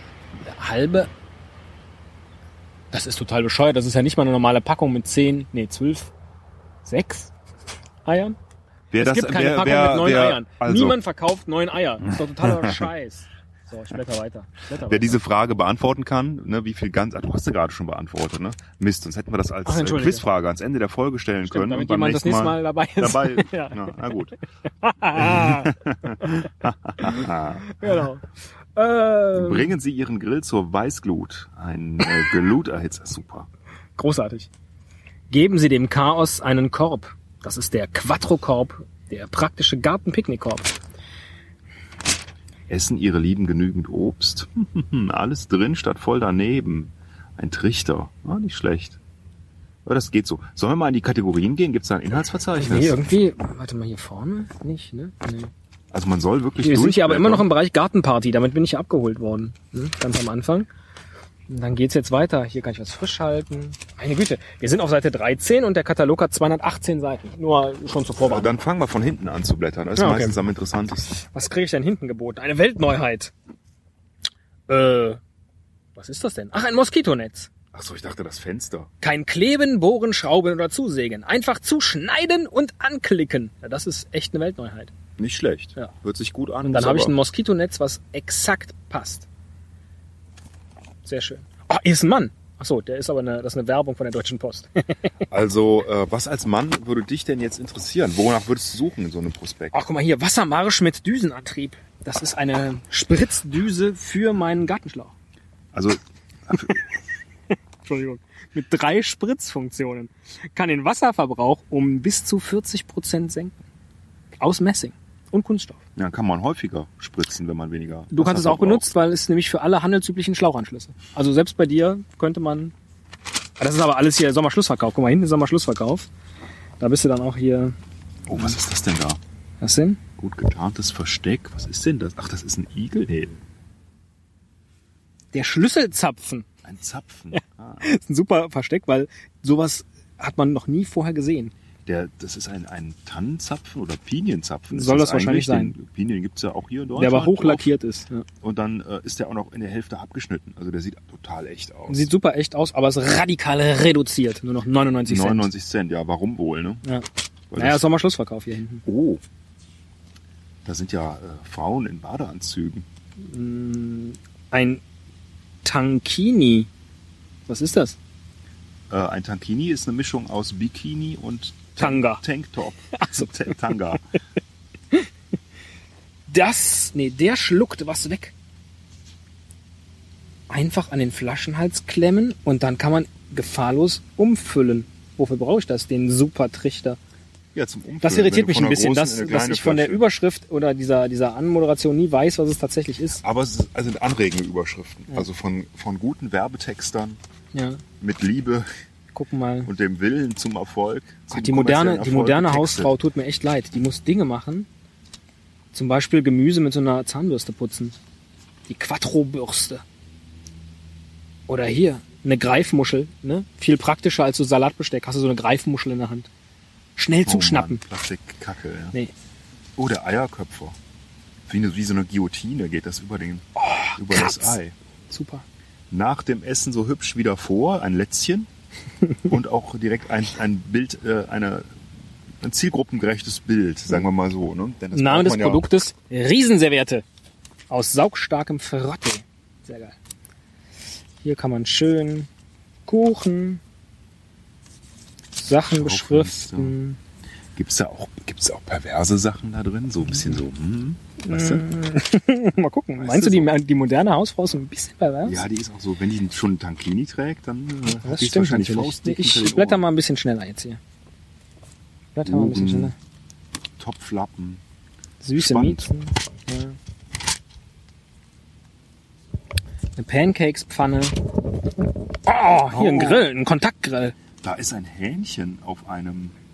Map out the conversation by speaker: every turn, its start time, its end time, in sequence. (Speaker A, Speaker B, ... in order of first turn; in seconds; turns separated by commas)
Speaker A: 0.4-1.1, Speaker A: 2.9-6.1, Speaker A: 6.8-7.3, Speaker A: 8.0-8.4, Speaker B: 8.9-11.0, Speaker A: 9.0-15.2, Speaker B: 12.0-12.9, Speaker B: 14.9-24.3, Speaker A: 19.6-20.2, Speaker A: 21.5-24.1, Speaker A: 24.8-26.5, Speaker B: 25.1-28.1, Speaker A: 27.0-29.7, Speaker B: 29.3-33.5, Speaker A: 34.0-34.5, Speaker A: 35.3-40.7, Speaker B: 42.7-49.0, Speaker B: 49.8-53.0, Speaker A: 52.6-55.5, Speaker B: 55.9-57.5, Speaker A: 56.6-60.7, Speaker A: 61.5-68.6, Speaker B: 68.2-71.1, Speaker A: 70.0-70.4, Speaker A: 71.2-73.3, Speaker A: 74.7-75.2, Speaker A: 76.0-77.5, Speaker B: 77.7-78.9, Speaker A: 79.0-84.9, Speaker B: 85.2-87.2, Speaker A: 86.6-89.3, Speaker A: 91.0-95.0, Speaker B: 95.3-99.8, Speaker A: 99.7-105.1, Speaker B: 105.7-106.8, Speaker A: 107.8-113.5, Speaker A: 114.4-115.8, Speaker B: 116.0-118.9, Speaker A: 118.1-122.7, Speaker A: 123.6-126.1, Speaker A: 126.8-127.7, Speaker B: 128.3-129.2, Speaker A: 129.6-130.0, Speaker B: 130.2-133.4, Speaker A: 135.3-136.4, Speaker B: 136.6-137.8, Speaker A: 137.3-141.5, Speaker B: 141.8-147.7, Speaker A: 144.7-145.7, Speaker A: 146.9-148.2, Speaker B: 148.4-152.1, Speaker A: 151.9-155.5, Speaker B: 155.1-156.8, Speaker B: 157.5-157.8, Speaker A: 157.6-158.8, Speaker B: 158.8-159.2, Speaker B: 160.6-162.8, Speaker A: 163.2-164.8, Speaker A: 165.6-166.7, Speaker A: 167.5-168.0, Speaker B: 168.9-174.0, Speaker A: 171.8-172.2, Speaker A: 172.9-173.3, Speaker A: 176.3-178.3, Speaker A: 180.5-187.0, Speaker B: 187.5-190.0, Speaker A: 188.0-193.2, Speaker B: 193.2-197.2, Speaker A: 197.5-197.8, Speaker B: 198.0-198.7, Speaker A: 199.1-199.7, Speaker B: 199.7-202.9, Speaker A: 201.3-204.7, Speaker A: 205.7-207.9, Speaker A: 208.7-209.8, Speaker A: 211.5-216.3, Speaker A: 216.9-217.8, Speaker B: 217.2-218.9, Speaker B: 219.8-220.8, Speaker B: 221.5-224.7, Speaker A: 223.6-224.6, Speaker A: 225.1-225.4, Speaker B: 225.9-228.5, Speaker B: 229.2-231.7, Speaker B: 232.4-235.7, Speaker A: 234.9-237.0, Speaker A: 237.7-239.9, Speaker A: 241.2-242.3, Speaker A: 242.9-243.6, Speaker A: 245.3-247.0, Speaker B: 245.7-246.8, Speaker B: 247.5-251.7, Speaker A: 251.2-255.4, Speaker B: 253.0-253.5, Speaker B: 255.2-259.8, Speaker A: 258.0-260.8, Speaker A: 262.1-262.9, Speaker B: 262.2-262.9, Speaker B: 263.8-264.6, Speaker A: 265.2-266.8, Speaker B: 265.3-265.9, Speaker A: 269.9-271.4, Speaker A: 272.2-274.1, Speaker B: 272.7-273.2, Speaker B: 274.4-276.4